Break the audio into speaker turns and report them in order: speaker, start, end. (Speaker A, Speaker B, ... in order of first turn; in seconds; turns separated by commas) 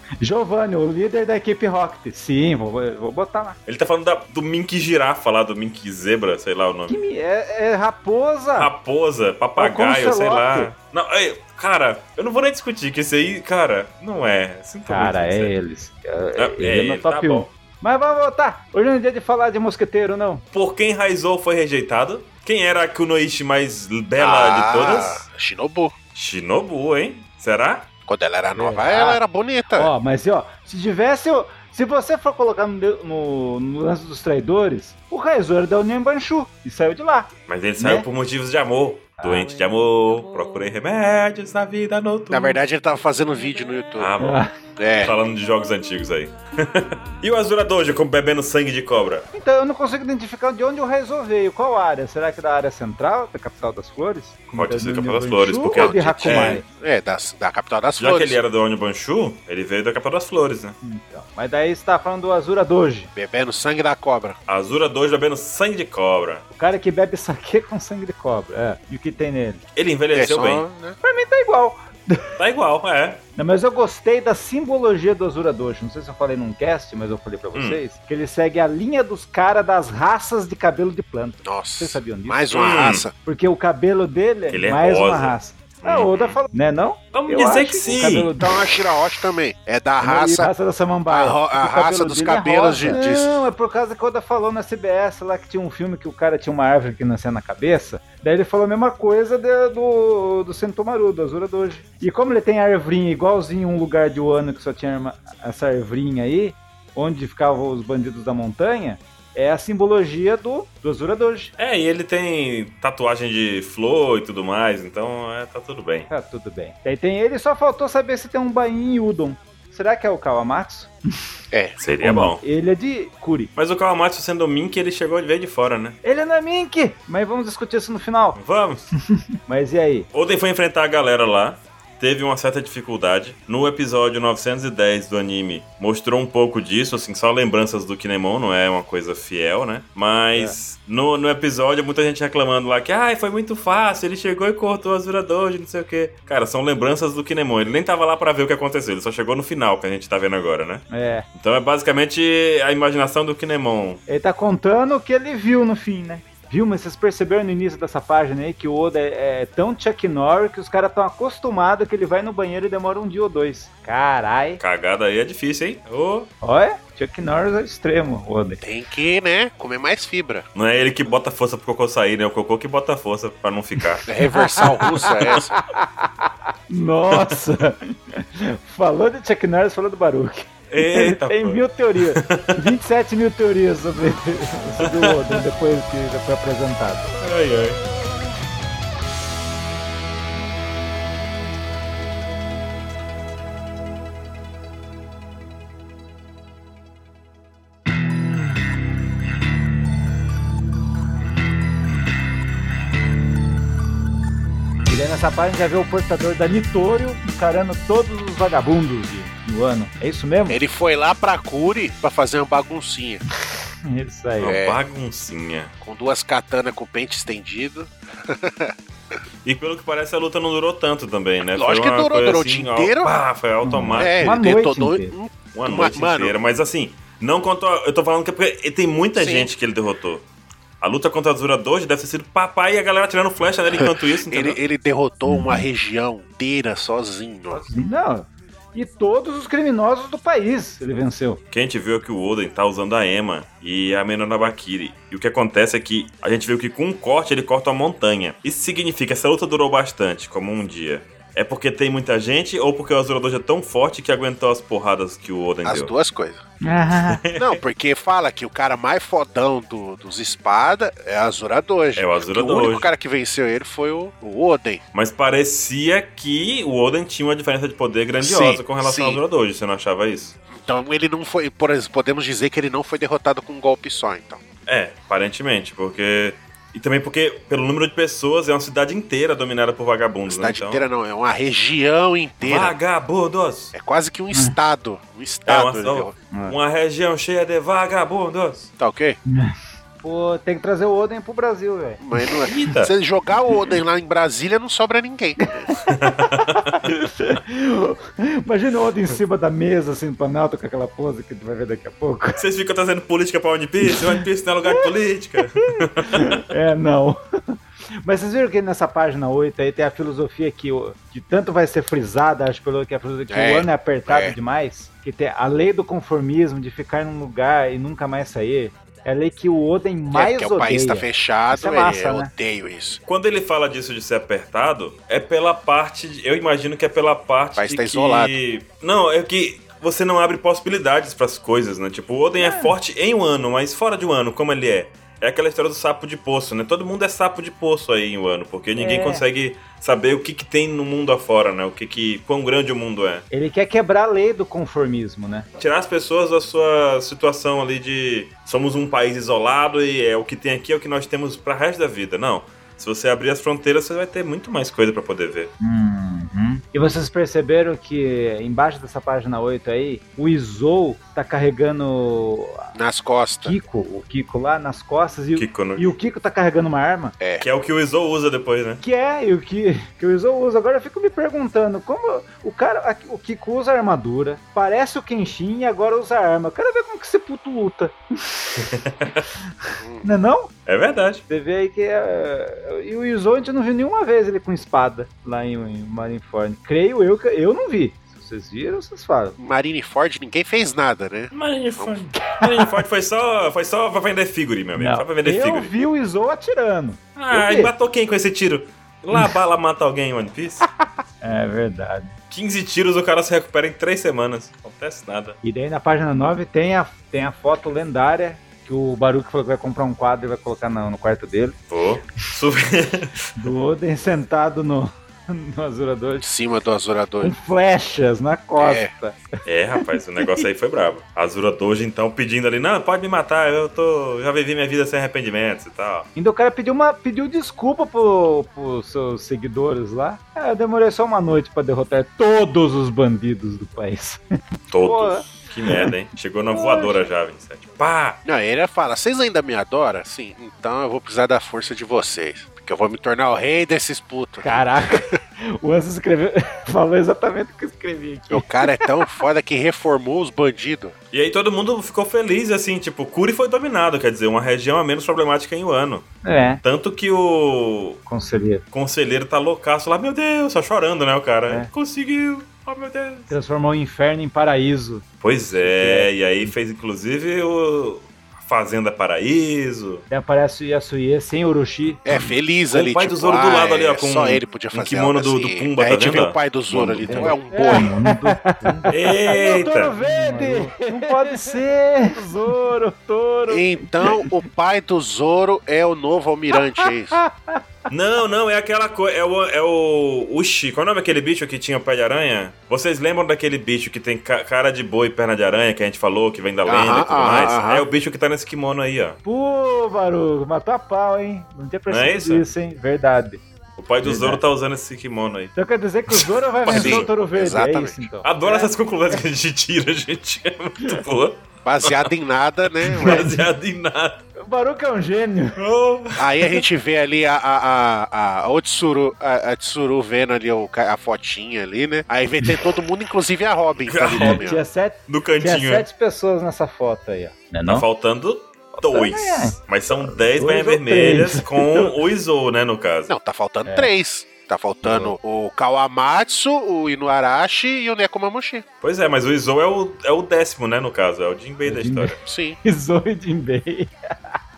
Speaker A: 0.2-3.6, Speaker B: 3.7-7.0, Speaker A: 6.9-8.7, Speaker B: 8.6-15.5, Speaker A: 9.6-10.7, Speaker A: 14.9-20.4, Speaker B: 16.4-17.5, Speaker B: 20.5-25.2, Speaker C: 24.2-25.9, Speaker B: 26.1-27.9, Speaker C: 28.1-29.9, Speaker A: 28.6-29.2, Speaker A: 29.8-38.1, Speaker B: 37.5-42.6, Speaker A: 39.2-39.5, Speaker C: 42.3-44.1, Speaker B: 44.0-44.4, Speaker A: 44.2-44.5, Speaker C: 44.8-45.2, Speaker B: 45.0-49.3, Speaker A: 49.3-56.6, Speaker B: 54.5-56.6, Speaker C: 55.8-58.4, Speaker B: 58.0-60.8, Speaker A: 60.8-63.1, Speaker C: 63.2-64.4, Speaker B: 64.5-66.4, Speaker A: 66.5-69.6, Speaker B: 69.8-70.7, Speaker C: 70.1-71.0, Speaker A: 71.0-72.3, Speaker B: 72.4-73.2, Speaker A: 73.4-82.6, Speaker B: 77.5-77.8, Speaker C: 81.4-83.1, Speaker B: 82.5-83.0, Speaker A: 83.2-88.6, Speaker B: 84.5-86.4, Speaker B: 87.1-88.3, Speaker C: 88.4-90.5, Speaker A: 90.0-111.5, Speaker C: 91.1-93.4, Speaker B: 111.6-116.1, Speaker A: 116.1-120.9, Speaker C: 121.5-121.8, Speaker B: 121.8-122.4, Speaker A: 122.0-123.5, Speaker B: 123.6-126.0, Speaker A: 126.0-128.4, Speaker B: 128.4-128.9, Speaker A: 129.5-130.1, Speaker B: 130.1-154.0, Speaker A: 150.9-151.2, Speaker A: 154.1-164.6, Speaker B: 164.6-166.3, Speaker A: 166.4-168.6, Speaker C: 168.6-170.5, Speaker B: 170.6-174.1, Speaker C: 174.1-175.5, Speaker A: 174.3-187.1, Speaker B: 177.1-177.4, Speaker B: 180.7-182.8, Speaker B: 184.8-185.4, Speaker B: 187.2-187.8, Speaker A: 204.9-210.6, Speaker C: 210.5-213.2, Speaker A: 213.8-214.6, Speaker B: 214.4-215.7, Speaker C: 214.4-214.8, Speaker C: 215.8-218.8, Speaker B: 219.4-224.3, Speaker C: 221.5-223.2, Speaker A: 223.6-225.1, Speaker C: 223.9-226.3, Speaker B: 225.6-230.2, Speaker C: 229.2-229.5, Speaker B: 230.8-234.6, Speaker C: 233.7-237.7, Speaker A: 235.3-235.6, Speaker A: 237.5-241.4, Speaker B: 241.5-255.9, Speaker C: 255.7-256.4, Speaker A: 256.6-257.2, Speaker B: 257.1-257.6, Speaker C: 257.4-264.8, Speaker B: 262.0-262.9, Speaker B: 264.9-270.4, Speaker C: 268.2-269.2, Speaker C: 270.5-274.4, Speaker B: 274.7-280.9, Speaker C: 280.3-282.8, Speaker B: 282.4-283.7, Speaker C: 283.7-286.1, Speaker B: 285.5-288.7, Speaker A: 286.3-286.6, Speaker C: 288.8-289.2, Speaker A: 289.3-292.5, Speaker C: 292.0-295.7, Speaker B: 292.5-292.9, Speaker A: 295.4-302.4, Speaker B: 295.9-296.9, Speaker B: 302.4-306.4, Speaker A: 303.8-304.9, Speaker A: 305.6-322.3, Speaker C: 313.3-314.4, Speaker C: 320.1-323.0, Speaker B: 323.1-343.2, Speaker C: 327.6-328.4, Speaker A: 332.4-332.7, Speaker A: 338.8-339.2, Speaker A: 343.3-345.5, Speaker B: 345.6-355.5, Speaker A: 355.6-362.7, Speaker C: 362.8-363.6, Speaker A: 363.4-367.2, Speaker B: 365.4-366.0, Speaker C: 367.2-367.5, Speaker B: 367.4-368.8, Speaker A: 368.8-379.1, Speaker B: 378.7-379.2, Speaker A: 379.6-380.5, Speaker C: 379.8-380.1, Speaker B: 380.7-381.2, Speaker A: 381.3-389.4, Speaker C: 389.4-392.0, Speaker B: 391.3-395.7, Speaker A: 392.2-392.8, Speaker A: 394.8-397.7, Speaker B: 397.2-400.7, Speaker A: 401.2-402.1, Speaker B: 402.3-405.4, Speaker A: 405.4-411.6, Speaker B: 411.7-413.3, Speaker A: 413.4-416.3, Speaker C: 416.2-417.4, Speaker A: 417.2-419.2, Speaker C: 418.6-418.9, Speaker B: 419.4-426.1, Speaker A: 426.2-434.2, Speaker B: 434.7-438.2, Speaker A: 434.8-435.9, Speaker A: 436.5-437.1, Speaker C: 438.2-445.2, Speaker A: 444.4-449.1, Speaker C: 448.3-450.9, Speaker B: 451.1-456.1, Speaker A: 456.2-456.6, Speaker B: 456.6-458.0, Speaker A: 458.1-458.6, Speaker B: 458.7-463.3, Speaker A: 463.3-466.5, Speaker B: 465.2-470.1, Speaker A: 470.1-472.0, Speaker C: 472.1-478.0, Speaker B: 472.1-477.4, Speaker A: 477.1-484.3, Speaker B: 478.9-480.0, Speaker C: 483.5-487.2, Speaker A: 486.8-487.6, Speaker B: 487.9-499.2, Speaker C: 496.7-497.9, Speaker A: 499.2-503.4, Speaker B: 501.9-502.5, Speaker B: 503.8-505.5, Speaker A: 504.0-504.4, Speaker A: 505.6-509.2, Speaker B: 506.1-507.1, Speaker C: 506.7-508.1, Speaker B: 508.2-512.1, Speaker C: 511.6-513.3, Speaker B: 512.8-514.2, Speaker A: 513.0-513.4, Speaker A: 514.4-515.6, Speaker B: 515.6-516.6, Speaker C: 516.2-524.6, Speaker B: 523.9-524.5, Speaker A: 524.1-527.9, Speaker B: 525.1-525.9, Speaker B: 527.7-533.1, Speaker A: 528.8-531.9, Speaker C: 533.1-538.6, Speaker A: 534.8-535.1, Speaker B: 538.8-542.2, Speaker A: 541.6-544.0, Speaker C: 542.2-542.6